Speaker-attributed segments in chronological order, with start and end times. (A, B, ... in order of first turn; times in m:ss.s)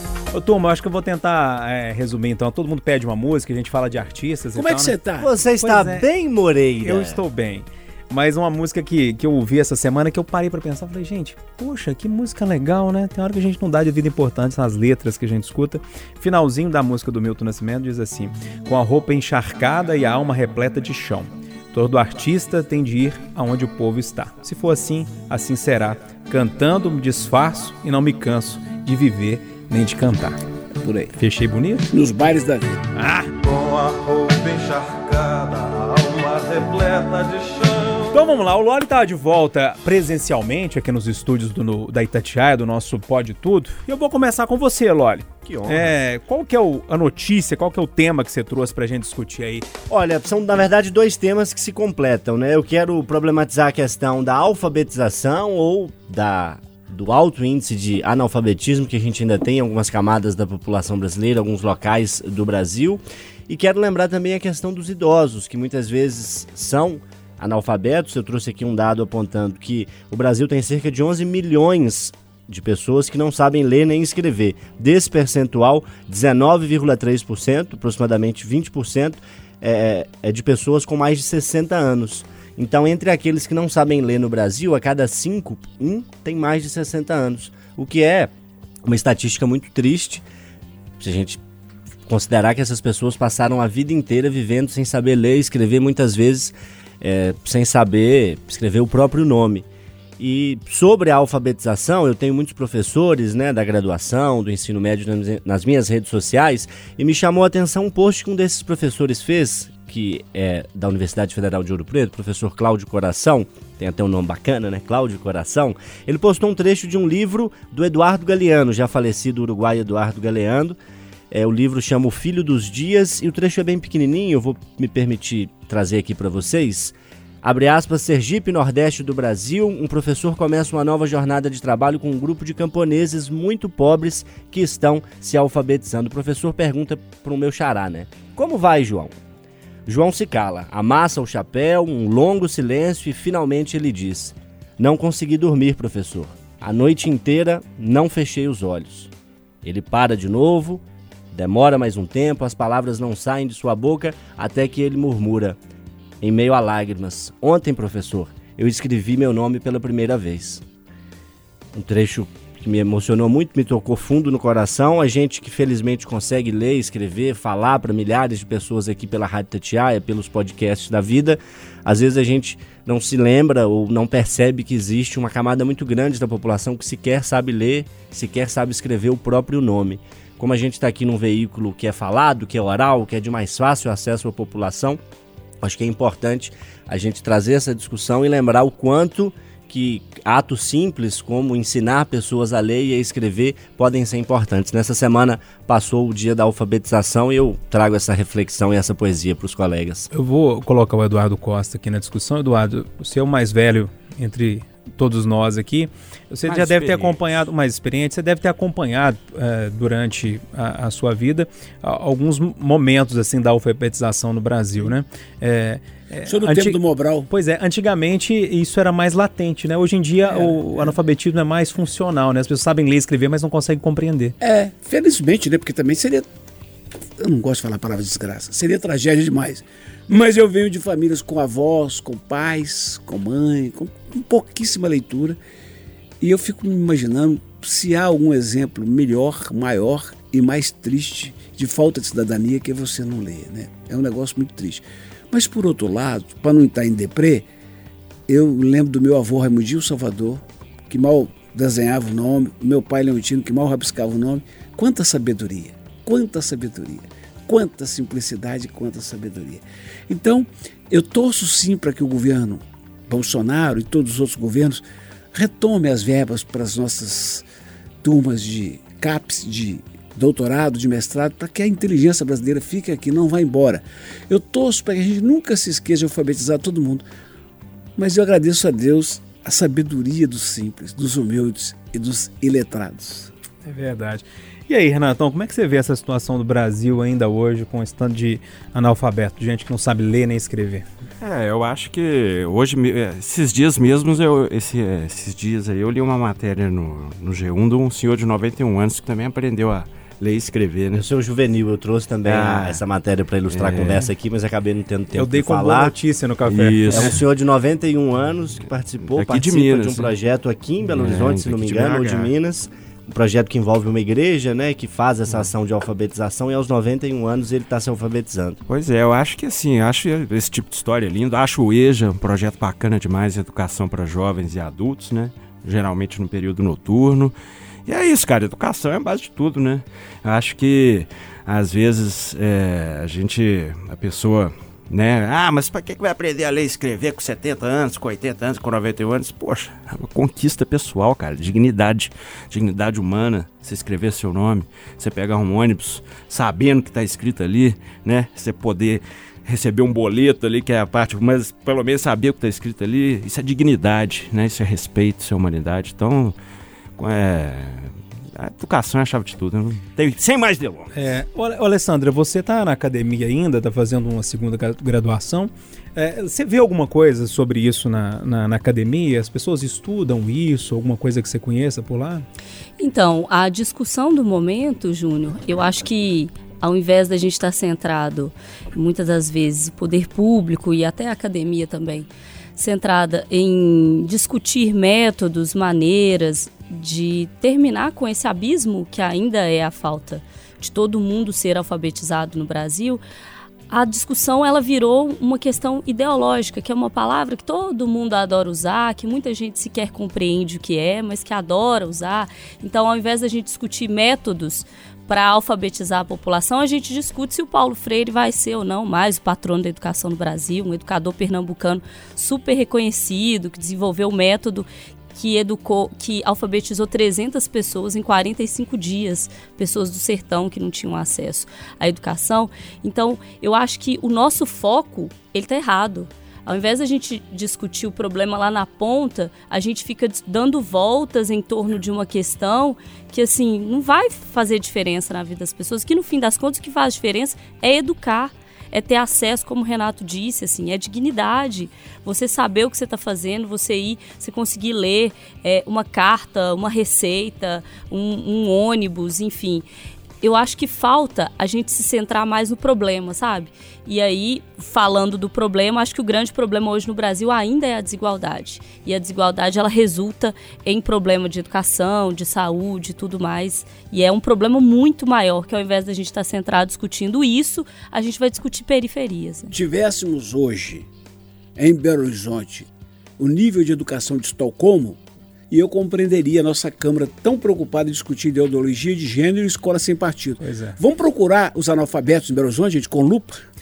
0:00.3-0:05.0 A
0:04.6-0:05.3 B
0:05.2-0:07.2 C
0:05.6-0:06.1 A
0:06.8-0:30.4 A
0:30.8-0:31.2 B
0:31.2-0:31.9 A
0:31.9-0:32.9 B
0:33.0-0:33.3 A
0:33.3-0:38.3 D
0:38.1-0:49.7 A
0:45.4-0:45.9 C
0:49.9-1:28.3 C
1:28.8-1:30.2 C
1:31.0-1:31.4 C
1:32.1-1:39.7 C
1:40.2-2:00.8 C
2:01.3-2:19.2 C
2:19.9-2:29.1 C
2:29.6-2:35.6 C
2:36.2-2:40.6 C
2:41.7-3:05.0 C
3:05.6-3:20.1 C
3:20.1-3:44.4 A
3:26.5-3:27.2 E
3:36.3-3:37.3 B
3:44.4-3:46.3 B
3:47.2-3:55.4 B
3:56.2-4:07.5 B
4:08.3-4:24.8 B
4:25.3-4:27.4 B
4:28.0-4:37.1 B
4:38.0-4:43.3 B
4:43.6-4:50.8 A
4:51.2-5:01.0 E
5:01.0-5:05.9 C
5:02.3-5:02.8 E
5:03.5-5:04.1 E
5:05.1-5:07.2 A
5:06.5-5:07.2 E
5:06.9-5:18.6 C
5:09.1-5:10.1 E
5:10.9-5:12.3 E
5:18.7-5:27.4 E
5:27.9-5:56.4 E
5:57.0-6:01.0 E
6:00.9-6:12.2 A
6:12.8-6:33.0 F
6:33.7-7:29.6 F
7:30.2-7:49.5 F
7:49.5-7:50.9 B
7:51.6-7:52.7 B
7:53.2-7:55.0 B
7:55.5-8:03.4 B
8:00.4-8:00.8 A